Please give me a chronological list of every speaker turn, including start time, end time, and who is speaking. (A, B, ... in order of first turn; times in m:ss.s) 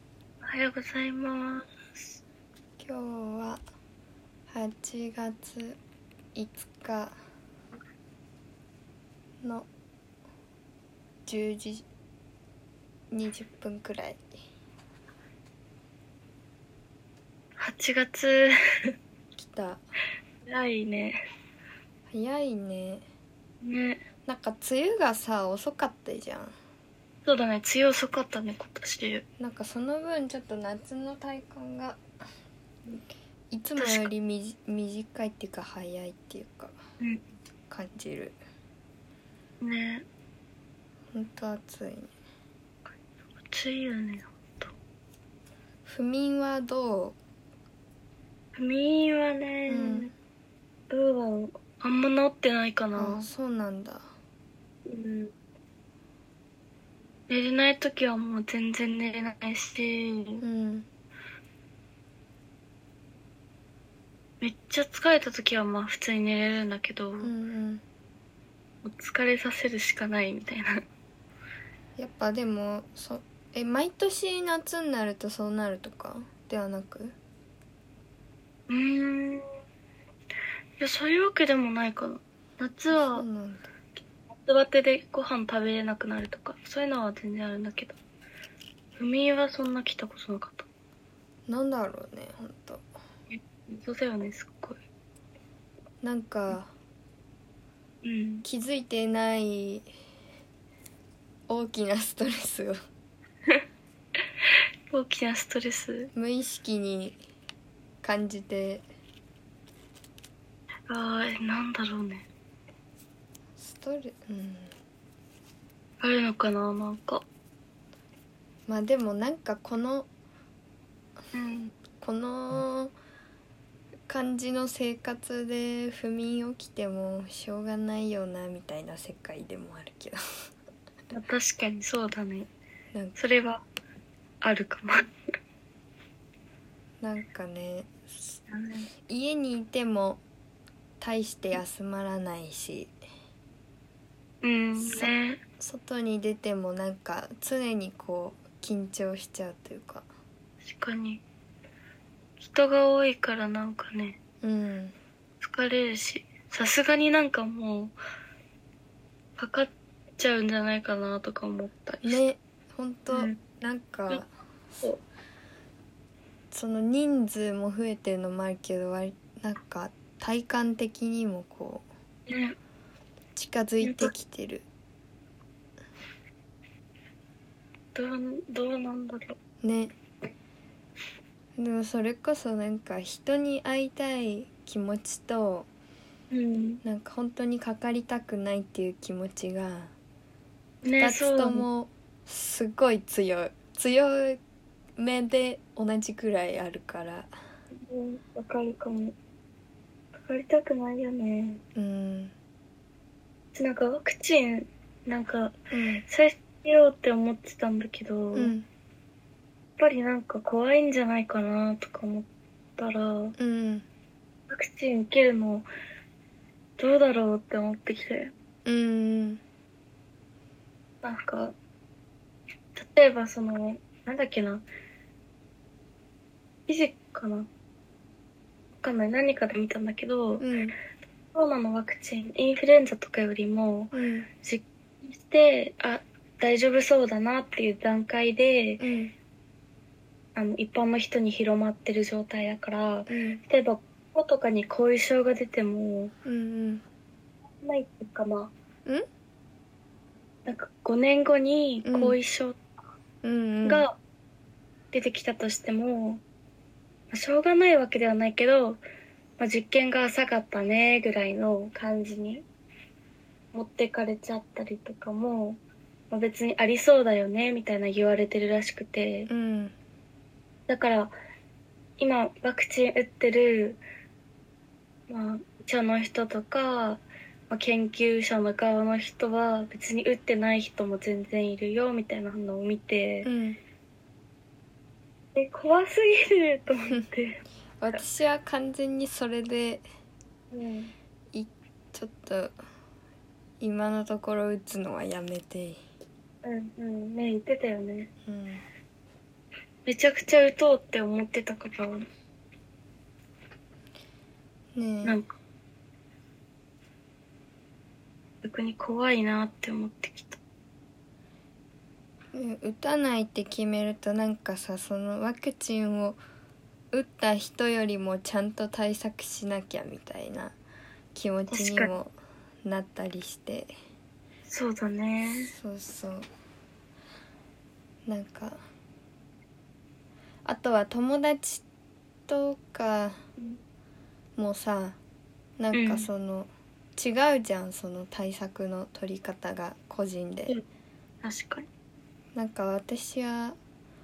0:00.4-0:02.2 A
0:02.8-0:03.6 B
0:04.5-0:05.8 B
0:06.4-0:07.2 B
0:09.4-0:09.7 B
0:11.3-0:11.8 B
0:13.1-0:14.2 B
0:17.6-0:19.0 A
0:19.4-0:19.8 B
0:20.4-0:21.2 A
0:22.1-0:23.0 B
0:23.6-0:24.0 A
0:24.3-0:26.5 B
0:27.3-0:29.2 A
0:29.4-0:32.0 B
0:33.5-0:36.8 B
0:33.8-0:34.1 A
0:37.7-0:38.4 B
0:39.6-0:40.0 A
0:41.1-0:42.1 B
0:43.5-0:44.7 A
0:45.9-0:47.2 B
0:48.6-0:50.1 A
0:49.7-0:50.1 B
0:50.9-0:53.3 A
0:53.0-0:54.1 B
0:54.9-0:55.3 A
0:57.3-1:00.4 A
1:00.4-1:00.9 B
1:04.4-1:07.3 A
1:07.2-1:07.8 B
1:08.8-1:10.8 A
1:12.0-1:17.2 B
1:18.7-1:19.4 A
1:20.8-1:23.3 A
1:22.9-1:23.7 B
1:24.3-1:28.0 A
1:29.0-1:30.7 A
1:31.5-1:32.9 B
1:33.3-1:34.8 A
1:36.0-1:36.7 B
1:38.0-1:38.5 A
1:38.4-1:39.9 B
1:41.5-1:42.8 B
1:44.9-1:46.1 A
1:46.1-1:47.2 B
1:48.0-1:48.8 B
1:50.9-1:52.3 A
1:53.6-1:54.7 B
1:56.0-1:57.2 A
1:58.7-2:00.1 B
2:01.3-2:01.7 A
2:02.0-2:02.9 B
2:04.1-2:10.2 B
2:11.1-2:12.5 A
2:13.2-2:13.6 A
2:14.4-2:15.1 A
2:17.0-2:18.4 B
2:18.5-2:18.9 A
2:19.1-2:20.2 B
2:21.0-2:22.9 B
2:24.4-2:25.4 A
2:24.8-2:30.1 B
2:30.6-2:31.2 A
2:32.4-2:34.2 A
2:34.4-2:35.0 B
2:35.4-2:38.0 A
2:39.4-2:42.2 A
2:42.0-2:44.3 B
2:43.1-2:43.4 A
2:46.5-2:51.8 B
2:52.3-2:52.6 A
2:53.4-2:54.6 B
2:53.8-2:54.1 A
2:58.0-2:59.4 A
2:59.6-2:59.9 B
3:01.6-3:05.7 B
3:06.3-3:06.8 A
3:06.8-3:09.9 B
3:10.8-3:11.6 A
3:11.0-3:14.4 B
3:15.0-3:17.3 B
3:17.8-3:19.2 A
3:20.3-3:21.6 A
3:21.8-3:22.3 B
3:23.5-3:28.5 A
3:25.7-3:26.0 B
3:28.4-3:28.7 B
3:29.8-3:33.4 A
3:33.4-3:33.8 B
3:34.5-3:35.7 A
3:36.8-3:38.3 A
3:38.6-3:39.4 B
3:41.0-3:41.6 A
3:42.8-3:44.6 A
3:46.7-3:47.5 A
3:48.8-3:50.5 A
3:50.4-3:50.8 B
3:51.3-3:58.8 A
3:53.9-3:54.3 B
3:58.8-3:59.1 B
4:00.4-4:06.1 A
4:03.1-4:03.4 B
4:06.2-4:06.8 B
4:07.6-4:08.5 A
4:10.5-4:12.6 A
4:11.8-4:12.2 B
4:13.2-4:13.9 B
4:13.6-4:14.0 A
4:14.9-4:16.2 A
4:17.1-4:18.8 A
4:19.4-4:22.5 A
4:23.5-4:25.6 A
4:26.1-4:29.3 A
4:29.3-4:29.8 B
4:30.7-4:31.1 A
4:32.0-4:33.8 A
4:35.1-4:43.3 A
4:43.2-4:43.6 B
4:45.4-4:47.4 A
4:47.8-4:49.8 B
4:50.5-4:50.9 A
4:51.3-4:52.5 B
4:53.6-4:55.8 B
4:56.4-4:58.1 A
4:58.2-4:58.6 B
4:59.9-5:02.0 A
5:04.8-5:05.2 B
5:05.0-5:05.3 A
5:08.4-5:10.4 A
5:12.3-5:16.2 B
5:16.9-5:20.6 B
5:21.2-5:23.7 B
5:21.5-5:21.9 A
5:24.5-5:25.5 A
5:25.3-5:26.3 B
5:28.1-5:28.6 B
5:30.4-5:31.6 B
5:32.3-5:33.2 B
5:34.4-5:35.0 B
5:35.6-5:40.6 B
5:35.7-5:36.1 A
5:41.2-5:41.7 A
5:42.3-5:43.6 B